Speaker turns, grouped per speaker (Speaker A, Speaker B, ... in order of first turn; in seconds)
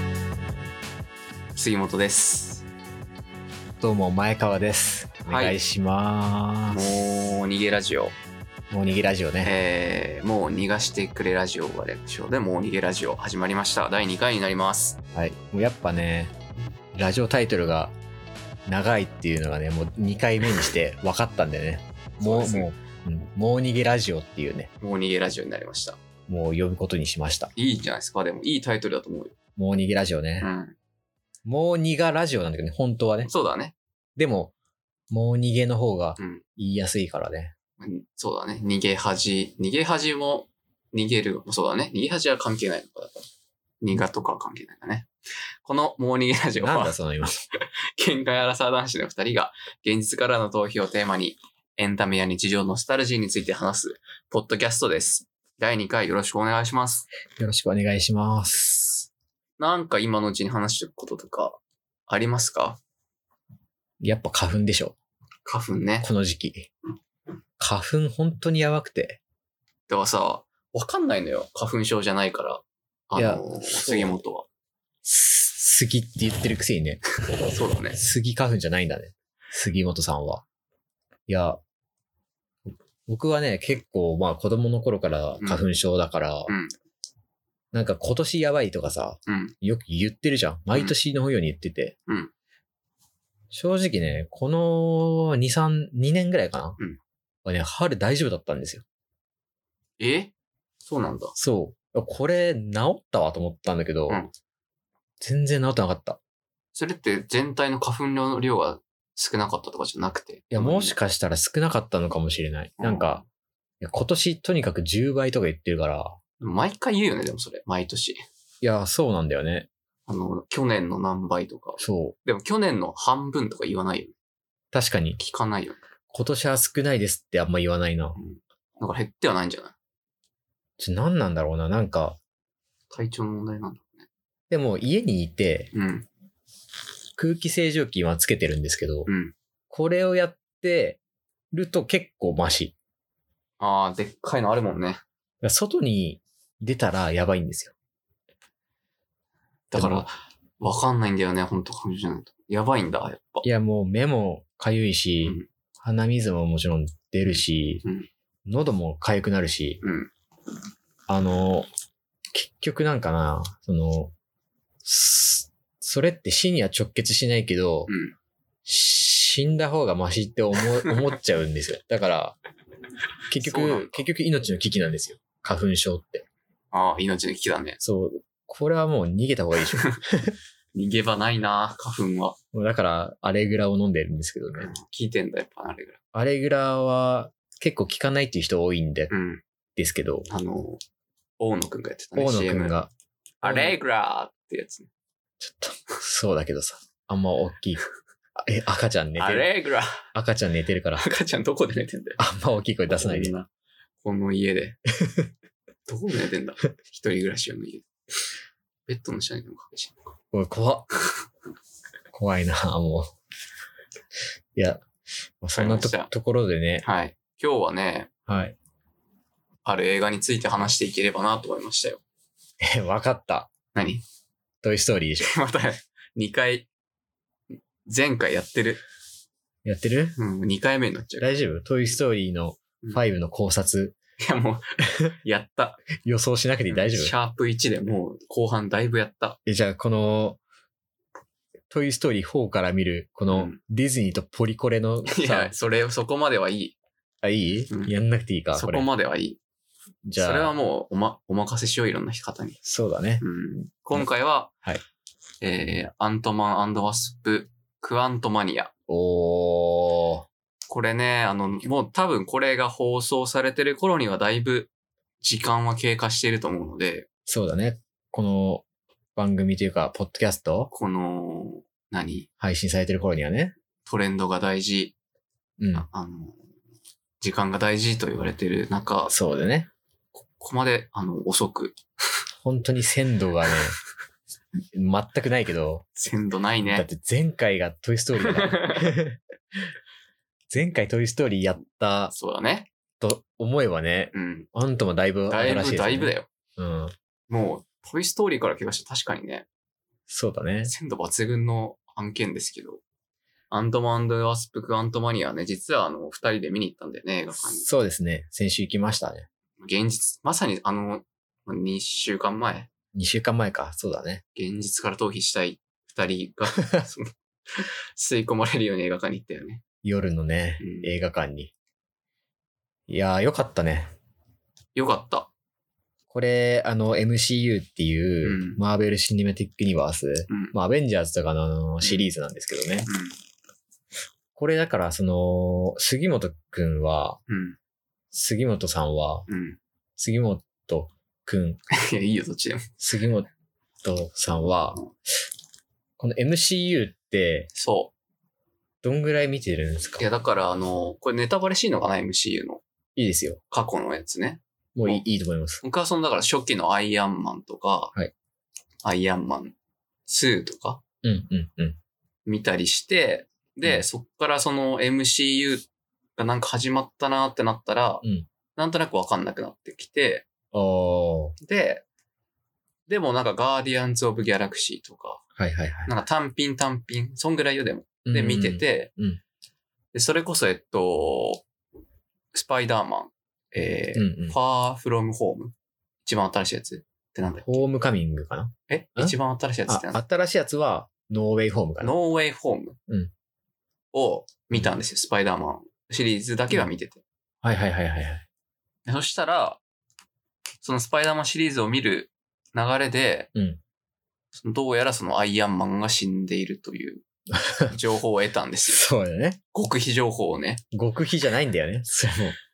Speaker A: 1.5-2.6, 5.3-5.6, 6.7-8.2, 9.4-15.0, 22.2-22.7, 24.8-26.0, 27.6-29.3, 30.4-30.7, 33.2-33.8, 36.2-36.4, 37.8-43.2, 43.8-45.1, 45.6-47.0, 47.6-57.1, 59.6-62.8, 65.4-66.1, 69.9-74.5, 77.4-78.0, 85.4-85.7, 86.5-86.7, 89.3-89.5, 100.0-101.3, 106.7-111.0, 112.8-113.2, 116.4-118.2, 120.1-124.1, 125.2-125.8, 128.1-129.7, 132.9-134.1, 135.7-136.1, 139.1-139.3, 143.6-145.0, 149.7-153.4, 157.2-158.1, 159.8-160.1, 167.9-168.1, 173.4-174.1, 176.7-177.8, 179.7-180.0, 180.7-182.4, 184.6-186.0, 189.1-189.4, 190.3-190.8, 191.4-192.8, 193.4-194.9, 199.2-200.1, 201.0-202.2, 202.9-203.5, 204.0-204.8, 205.9-207.9, 208.9-210.1, 215.6-216.1, 216.8-218.1, 219.6-222.0, 223.7-224.0, 225.2-226.7, 227.8-228.8, 230.2-231.3, 234.2-235.8, 236.7-239.4, 243.3-243.6, 245.1-246.7, 248.5-249.4, 250.2-252.6, 253.2-254.5, 255.4-258.7, 260.7-264.7, 265.2-267.1, 270.7-272.3, 273.8-274.9, 275.7-276.4, 277.2-279.1, 280.3-281.8, 286.0-286.9, 288.2-288.9, 292.1-292.7, 294.1-294.5, 295.3-296.3, 297.3-299.4, 300.6-302.8, 303.5-307.7, 309.6-312.7, 314.3-319.6, 320.6-320.9, 324.7-325.3, 328.2-328.6, 330.3-330.5, 332.9-333.1, 337.3-337.6, 339.3-339.6, 341.7-342.7, 347.5-347.9, 350.0-352.6, 353.5-355.0, 355.6-357.9, 358.8-359.5, 360.1-360.8, 362.3-365.6, 366.2-368.0, 368.6-370.2, 371.4-371.8, 372.9-375.2, 375.9-378.9, 379.9-381.4, 382.3-385.5, 386.0-387.6, 388.7-390.0, 391.8-392.8, 393.9-397.0, 398.9-399.6, 400.6-403.3, 404.4-407.0, 407.7-408.8, 409.5-410.6
Speaker B: 3.8-7.0, 8.7-9.5, 15.1-16.3, 16.9-17.9, 18.6-24.7, 26.3-27.5, 29.6-30.5, 31.4-33.3, 34.2-34.5, 35.1-37.5, 46.6-47.4, 57.4-58.9, 64.0-65.0, 66.0-66.7, 67.6-69.2, 73.1-74.2, 75.0-77.0, 77.9-80.4, 81.3-81.6, 83.0-86.5, 87.7-91.9, 93.5-96.8, 97.4-98.8, 101.4-104.2, 105.2-106.2, 110.5-113.2, 113.8-116.2, 118.6-119.7, 121.8-122.2, 124.7-125.2, 126.1-128.2, 130.8-132.2, 134.5-135.7, 137.2-139.1, 139.7-141.0, 141.5-142.7, 145.4-147.7, 149.7-150.1, 153.4-157.8, 158.4-159.8, 161.1-161.7, 162.3-164.1, 164.8-167.9, 168.6-172.4, 173.3-176.2, 177.8-180.3, 182.5-184.7, 186.1-189.1, 189.8-190.3, 192.2-192.9, 193.4-193.8, 195.4-197.8, 198.3-199.5, 200.1-201.0, 202.2-203.3, 205.0-205.3, 210.3-210.9, 212.1-213.1, 214.5-214.8, 215.4-216.8, 218.3-218.6, 222.6-223.5, 224.6-225.3, 229.6-230.2, 231.2-233.9, 236.0-237.1, 239.4-240.4, 241.7-245.5, 247.2-248.9, 250.0-250.5, 252.6-253.2, 258.9-260.2, 267.3-268.6, 269.1-270.7, 272.4-273.5, 275.6-275.9, 279.1-279.7, 282.4-283.8, 284.7-285.9, 286.6-289.7, 290.5-292.1, 293.0-296.9, 300.1-300.7, 307.6-309.3, 312.9-314.2, 319.8-321.5, 322.9-323.9, 326.1-332.9, 334.3-337.2, 338.1-339.3, 340.0-341.6, 342.8-343.3, 343.8-344.9, 346.0-347.5, 348.8-350.0, 352.9-353.4, 354.8-355.6, 361.0-361.8, 370.5-371.4, 375.4-375.9, 378.1-379.2, 383.9-384.4, 387.4-389.1, 389.7-391.9, 397.4-398.2, 407.3-407.7, 408.7-409.4, 410.7-412.4